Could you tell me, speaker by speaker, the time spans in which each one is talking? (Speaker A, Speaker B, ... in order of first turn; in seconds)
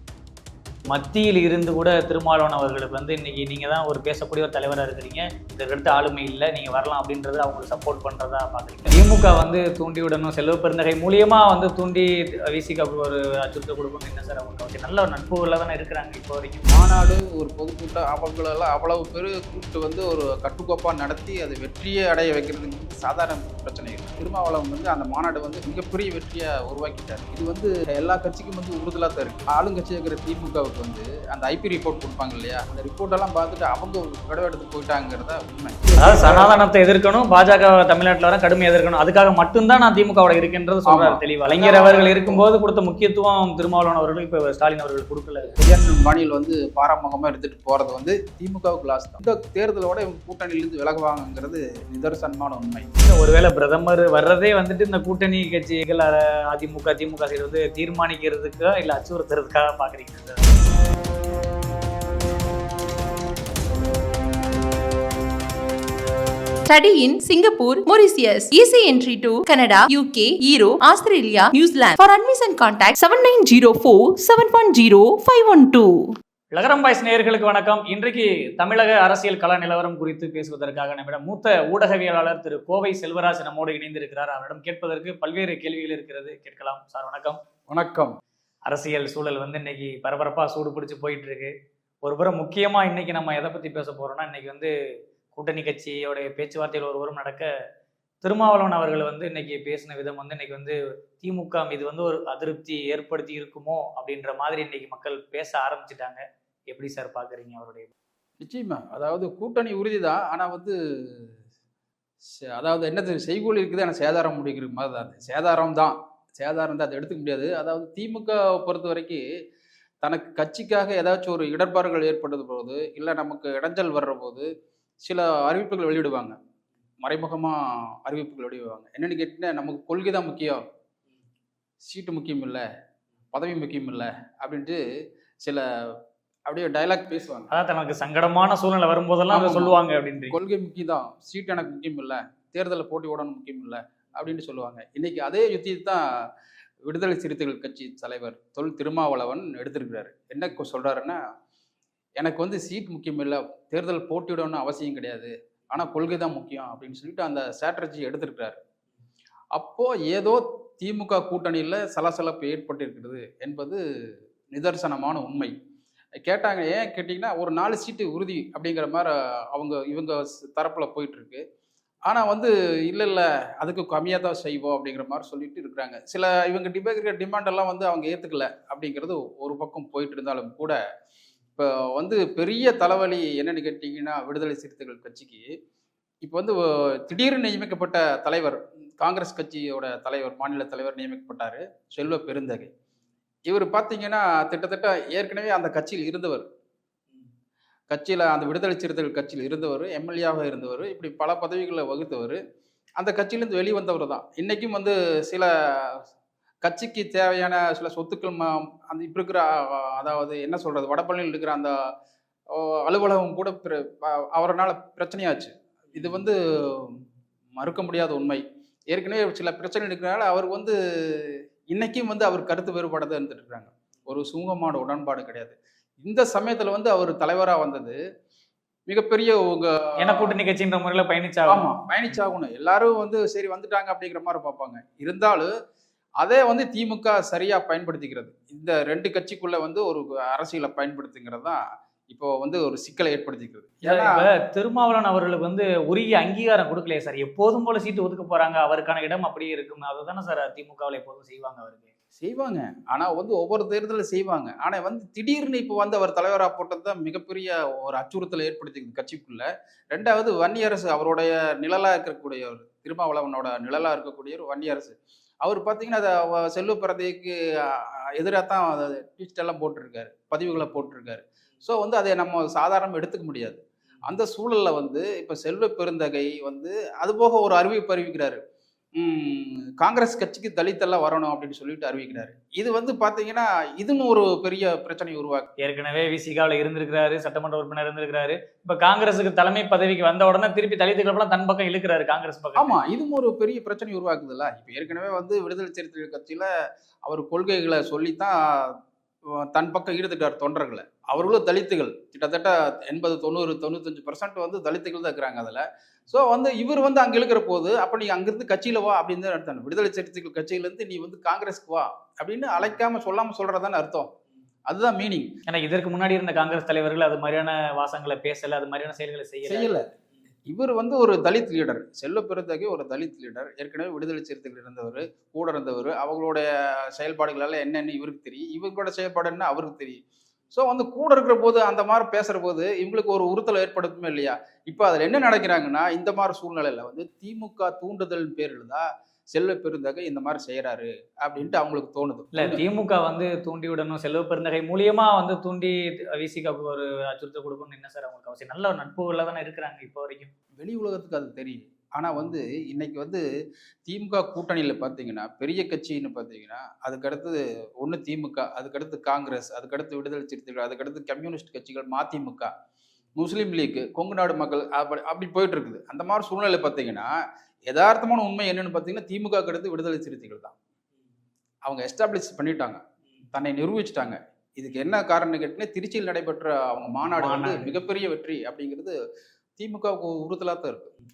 Speaker A: 0.9-16.6, 36.0-45.5, 53.0-60.4, 76.5-87.4, 88.7-94.7, 95.3-97.5, 98.2-107.9, 137.5-140.3, 230.0-231.6, 243.8-251.9, 285.6-292.8, 315.5-319.7, 342.4-350.3, 377.2-377.7
Speaker B: 16.7-36.5, 40.9-42.4, 45.5-52.9, 87.7-88.2, 108.4-111.3, 112.5-119.2, 120.0-124.5, 125.0-126.3, 127.0-130.6, 131.9-132.6, 133.3-134.8, 136.5-137.5, 139.3-139.7, 140.3-146.0, 146.9-151.2, 152.2-158.6, 159.6-163.8, 164.5-165.5, 166.2-171.4, 172.1-180.8, 181.6-185.5, 186.2-192.7, 193.5-196.4, 197.9-202.4, 203.0-206.0, 206.6-211.7, 212.5-217.0, 217.6-228.0, 228.9-230.3, 231.5-235.5, 236.2-244.2, 252.2-278.4, 279.0-285.5, 292.6-296.5, 297.1-298.8, 299.4-314.1, 314.7-315.3, 319.5-319.8, 320.5-330.0, 330.5-342.6, 350.6-353.2, 353.9-362.5, 363.2-367.1, 367.7-370.5, 371.6-372.8, 373.3-378.9, 379.6-380.9
Speaker C: 66.7-76.2